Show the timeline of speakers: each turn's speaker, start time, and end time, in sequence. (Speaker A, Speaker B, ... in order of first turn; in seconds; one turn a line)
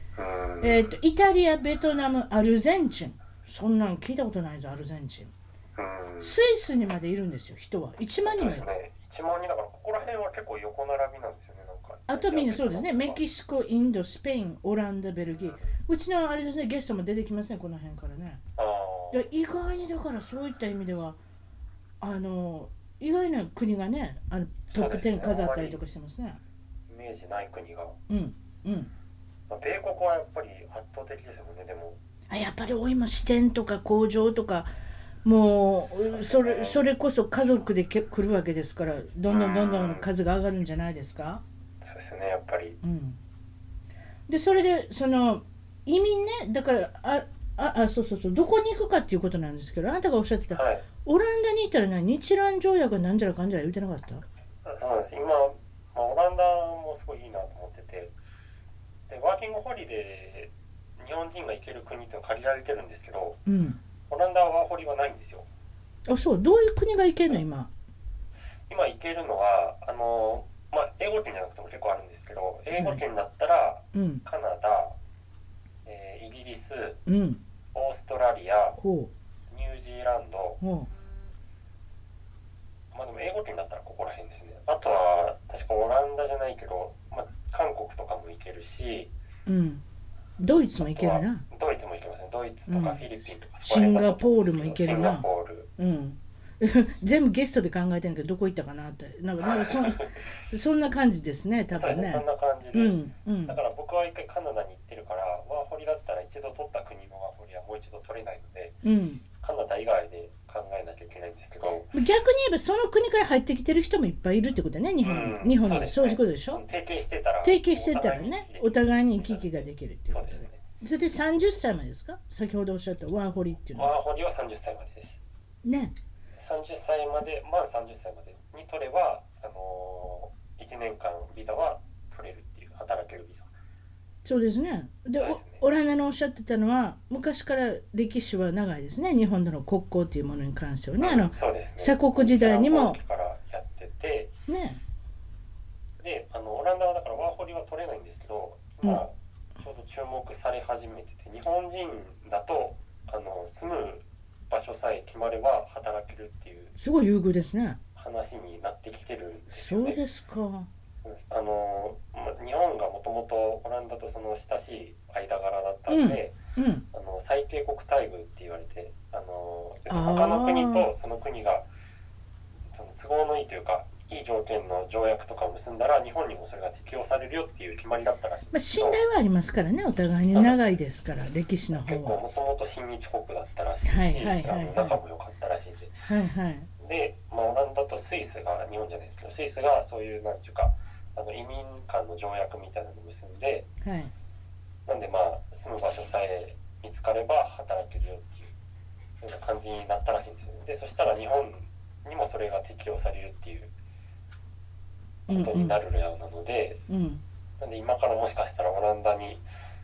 Speaker A: 0.2-0.9
Speaker B: 0.6-5.3
Speaker A: 5.8-6.4
Speaker B: 6.2-8.7
Speaker A: 8.2-13.2
Speaker B: 12.1-18.4
Speaker A: 18.6-19.2
Speaker B: 19.1-21.2
Speaker B: 22.0-26.4
Speaker A: 24.7-25.8
Speaker A: 26.9-28.0
Speaker B: 28.1-28.9
Speaker A: 29.5-32.0
Speaker B: 32.3-34.7
Speaker B: 35.2-41.4
Speaker A: 36.0-37.6
Speaker A: 39.3-40.1
Speaker A: 41.8-42.8
Speaker B: 42.8-43.2
Speaker B: 44.3-54.2
Speaker A: 50.5-50.9
Speaker A: 54.6-58.1
Speaker A: 59.1-63.4
Speaker B: 63.5-63.8
Speaker A: 64.1-65.5
Speaker B: 66.1-67.7
Speaker A: 68.7-75.0
Speaker B: 72.7-73.0
Speaker B: 73.9-74.2
Speaker A: 75.8-77.0
Speaker B: 77.1-77.4
Speaker A: 77.7-78.8
Speaker B: 78.8-79.1
Speaker A: 79.5-80.6
Speaker B: 80.6-80.9
Speaker A: 82.9-89.1
Speaker B: 89.5-89.8
Speaker B: 90.4-91.4
Speaker A: 90.7-95.7
Speaker B: 92.7-93.0
Speaker B: 93.6-95.3
Speaker B: 95.8-103.6
Speaker A: 99.4-100.3
Speaker A: 101.7-108.8
Speaker B: 108.8-109.2
Speaker A: 109.4-111.9
Speaker B: 111.9-116.6
Speaker A: 115.0-120.6
Speaker B: 117.4-123.9
Speaker A: 123.7-125.2
Speaker B: 125.6-125.9
Speaker A: 126.3-133.5
Speaker B: 134.2-143.0
Speaker A: 135.1-135.6
Speaker A: 141.0-144.3
Speaker B: 144.5-144.8
Speaker A: 146.0-156.7
Speaker B: 156.8-157.8
Speaker A: 158.0-160.0
Speaker B: 159.5-160.7
Speaker A: 161.0-166.3
Speaker B: 165.9-166.8
Speaker A: 166.9-171.7
Speaker B: 169.9-170.9
Speaker A: 172.7-179.1
Speaker B: 178.5-182.2
Speaker A: 180.3-180.9
Speaker A: 181.7-186.1
Speaker B: 183.8-185.0
Speaker B: 186.1-186.7
Speaker A: 186.8-193.7
Speaker B: 193.8-194.1
Speaker A: 194.9-198.5
Speaker A: 199.2-203.7
Speaker A: 205.3-206.8
Speaker B: 205.3-205.8
Speaker B: 206.9-207.2
Speaker A: 207.6-209.4